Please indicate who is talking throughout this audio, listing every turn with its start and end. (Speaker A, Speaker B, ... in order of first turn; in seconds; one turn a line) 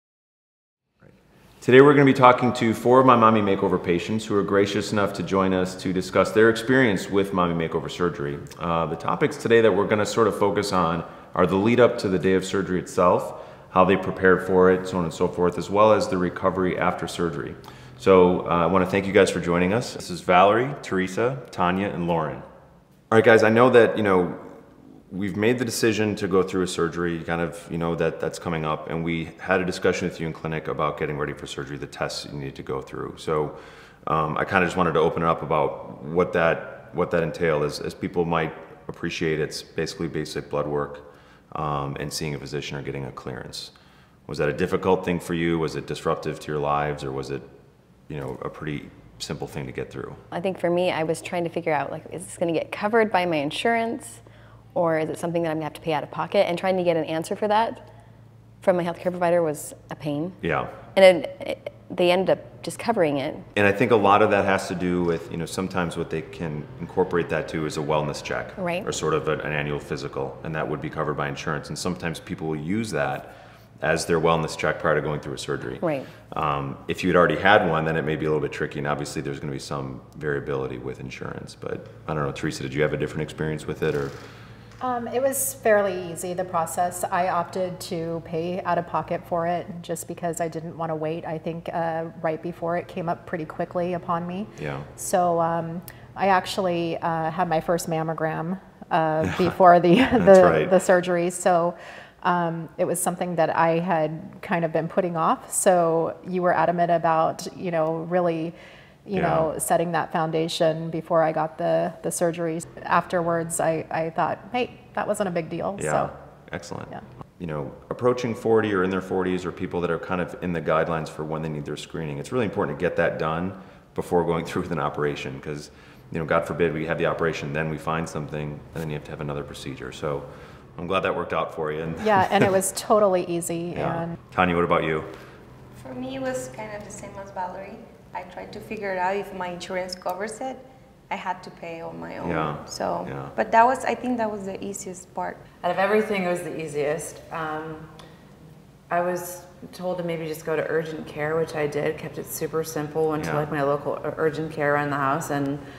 Speaker A: 1.6-22.4
Speaker A: 23.1-43.7
Speaker A: 44.3-47.5
Speaker A: 48.1-50.2
Speaker B: 50.3-54.2
Speaker B: 54.7-57.9
Speaker B: 58.6-60.4
Speaker A: 60.4-60.7
Speaker B: 60.9-63.5
Speaker A: 63.5-84.2
Speaker B: 68.6-68.9
Speaker B: 75.8-76.1
Speaker C: 84.8-116.1
Speaker A: 94.6-94.9
Speaker A: 99.2-99.5
Speaker A: 100.1-100.7
Speaker A: 109.1-109.5
Speaker A: 115.8-132.5
Speaker C: 132.0-134.1
Speaker A: 133.7-135.1
Speaker D: 135.7-145.4
Speaker A: 142.2-143.3
Speaker E: 145.6-147.9
Speaker E: 148.9-155.6
Speaker A: 153.2-153.5